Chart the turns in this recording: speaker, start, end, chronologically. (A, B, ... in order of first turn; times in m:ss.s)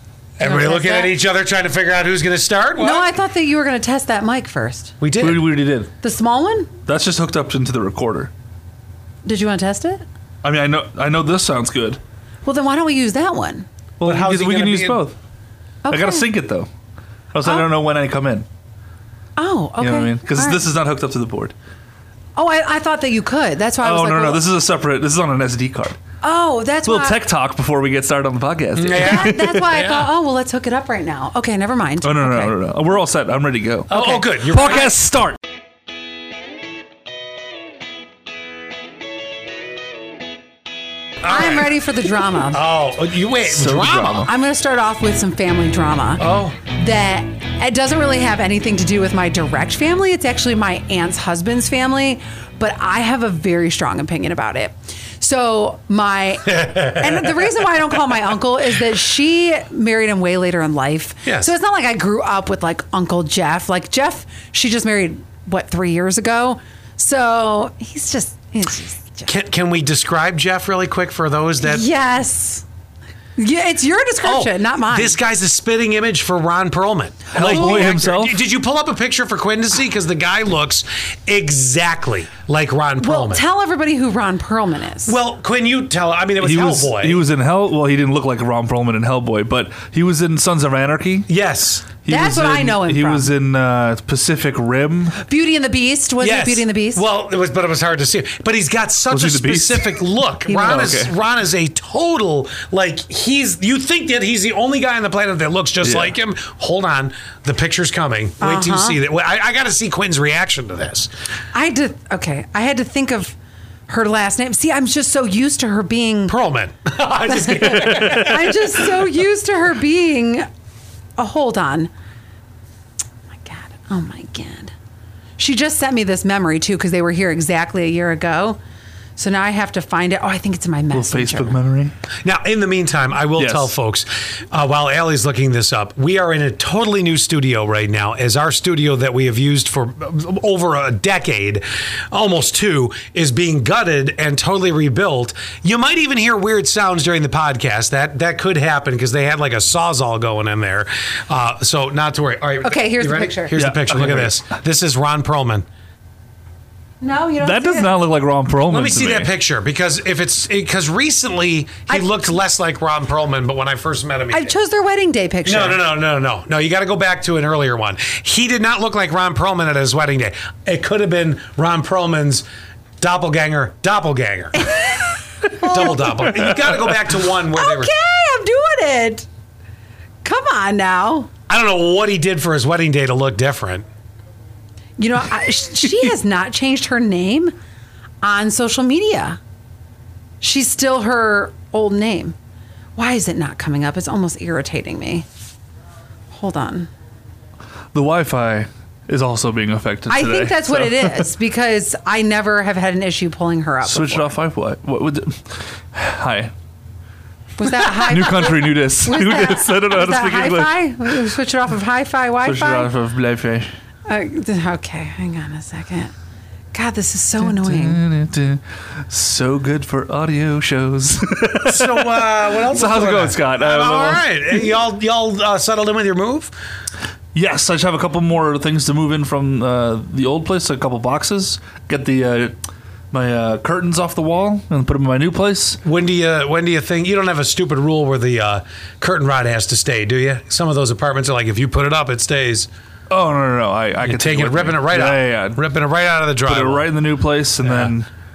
0:00.4-0:03.1 A
0:00.4-0:01.1 B
0:02.8-0:05.0 B
0:05.0-0:05.4 A
0:05.2-0:05.9 C
0:06.0-0:06.7 B
0:06.8-0:08.3 C
0:09.2-0:10.0 B
0:10.4-0:12.0 C
0:12.4-0:13.7 B
0:14.0-0:15.2 C
0:14.0-0:15.0 A
0:15.8-0:16.3 B
0:15.9-0:16.7 C
0:17.3-0:18.4 C
0:19.4-0:20.6 B
0:19.8-0:21.5 C
0:22.4-0:24.4 B
0:23.8-0:26.0 C
0:26.2-0:27.2 B
0:26.9-0:29.8 C
0:28.8-0:30.1 A
0:28.9-0:32.5 B
0:32.0-0:35.4 C
0:33.9-0:35.0 A
0:33.9-0:34.2 B
0:41.2-0:41.7 A
0:41.2-0:42.6 B
0:42.5-0:44.3 A
0:43.4-0:44.3 C
0:44.3-1:09.3 B
0:46.2-0:46.6 A
0:56.5-0:57.6 A
1:01.2-1:01.5 A
1:09.2-1:11.8 A
1:11.6-1:12.6 B
1:13.4-1:15.2 B
1:14.2-1:23.4 A
1:17.3-1:18.0 B
1:17.3-1:18.4 C
1:23.0-1:25.2 B
1:25.0-1:27.2 A
1:26.4-1:31.3 C
1:31.3-1:31.9 A
1:32.0-1:35.2 C
1:32.1-1:33.3 B
1:35.2-1:37.0 B
1:36.2-1:51.1 A
1:39.1-1:41.1 C
1:40.5-1:40.9 B
1:45.8-1:46.1 C
1:48.4-1:49.0 B
1:51.5-1:53.4 B
1:53.9-1:56.4 B
1:56.3-1:58.8 A
1:57.3-2:00.5 B
1:57.8-1:58.2 C
2:01.2-2:01.9 B
2:03.3-2:04.7 B
2:05.4-2:08.6 B
2:09.2-2:11.6 B
2:10.9-2:11.9 C
2:12.2-2:35.6 A
2:13.4-2:13.7 C
2:32.6-2:33.5 B
2:33.5-2:34.4 C
2:37.0-2:37.9 B
2:37.4-2:39.3 C
2:38.7-2:44.6 A
2:41.9-2:42.1 B
2:44.3-2:45.8 B
2:45.4-2:52.4 A
2:53.0-2:54.7 A
2:54.5-2:56.6 B
2:55.6-2:57.9 A
2:57.5-2:59.3 B
3:00.2-3:01.3 B
3:01.5-3:03.8 A
3:05.0-3:07.5 B
3:08.2-3:09.4 B
3:10.4-3:12.4 B
3:13.0-3:15.2 B
3:16.3-3:16.9 B
3:17.9-3:21.3 C
3:20.1-3:24.3 B
3:23.8-3:26.5 C
3:27.6-3:32.9 B
3:27.8-3:30.8 C
3:32.4-3:33.7 C
3:34.1-3:36.1 B
3:36.7-3:38.0 B
3:37.4-3:44.7 C
3:41.7-3:46.5 A
3:47.3-3:52.6 C
3:53.1-3:55.8 C
3:55.8-4:02.7 A
4:03.1-4:05.6 C
4:04.0-4:06.9 A
4:06.4-4:08.1 C
4:07.6-4:07.9 A